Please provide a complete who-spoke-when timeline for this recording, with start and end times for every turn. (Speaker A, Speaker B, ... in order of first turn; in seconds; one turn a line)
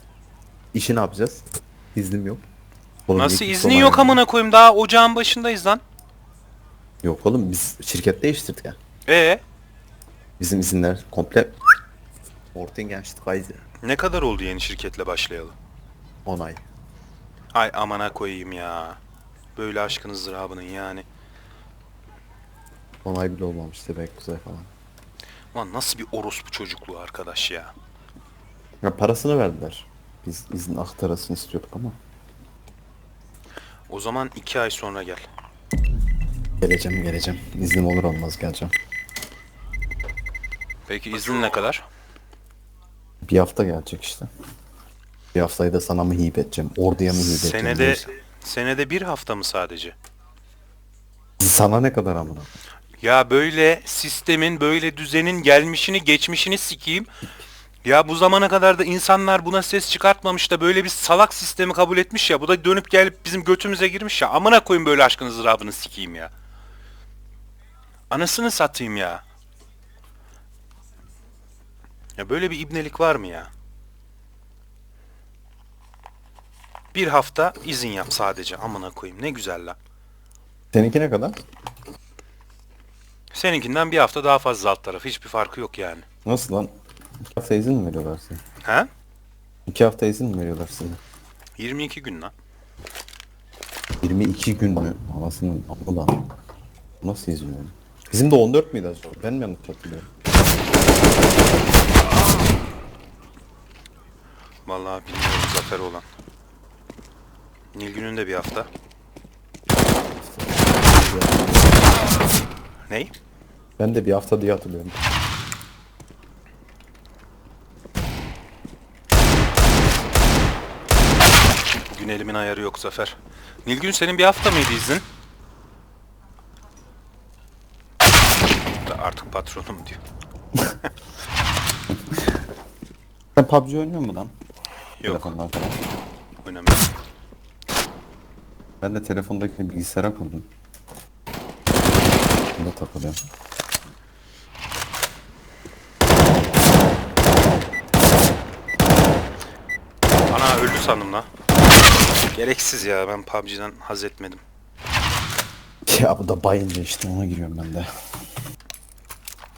Speaker A: 0.7-2.4
Speaker A: 3.1-4.2
Speaker B: 3.1-5.8
Speaker A: 7.0-8.8
Speaker B: 9.1-9.4
Speaker A: 10.4-11.6
Speaker A: 12.5-13.6
Speaker B: 13.8-15.5
Speaker A: 16.2-16.6
Speaker B: 17.5-19.0
Speaker B: 19.6-21.1
Speaker A: 23.0-24.7
Speaker B: 25.5-27.7
Speaker A: 28.8-31.9
Speaker B: 33.9-35.2
Speaker A: 36.6-38.7
Speaker B: 40.9-41.8
Speaker A: 43.2-44.3
Speaker A: 45.3-48.1
Speaker B: 47.1-50.0
Speaker A: 51.4-52.5
Speaker B: 53.0-57.1
Speaker B: 57.8-66.3
Speaker B: 68.1-69.2
Speaker B: 72.2-73.5
Speaker B: 76.9-79.8
Speaker A: 80.7-81.3
Speaker B: 83.3-86.0
Speaker A: 86.2-86.7
Speaker A: 87.3-88.4
Speaker B: 88.6-88.9
Speaker A: 89.7-91.0
Speaker B: 91.6-92.3
Speaker A: 94.0-96.2
Speaker A: 97.0-100.1
Speaker B: 104.7-106.0
Speaker B: 107.7-108.7
Speaker A: 110.2-111.8
Speaker A: 113.8-115.0
Speaker B: 121.9-125.0
Speaker B: 128.8-130.0
Speaker A: 133.3-134.3
Speaker B: 135.0-135.3
Speaker A: 135.0-135.8
Speaker B: 136.4-136.9
Speaker A: 138.8-140.5
Speaker A: 142.6-143.2
Speaker B: 150.3-151.3
Speaker B: 152.3-154.4
Speaker A: 155.9-157.9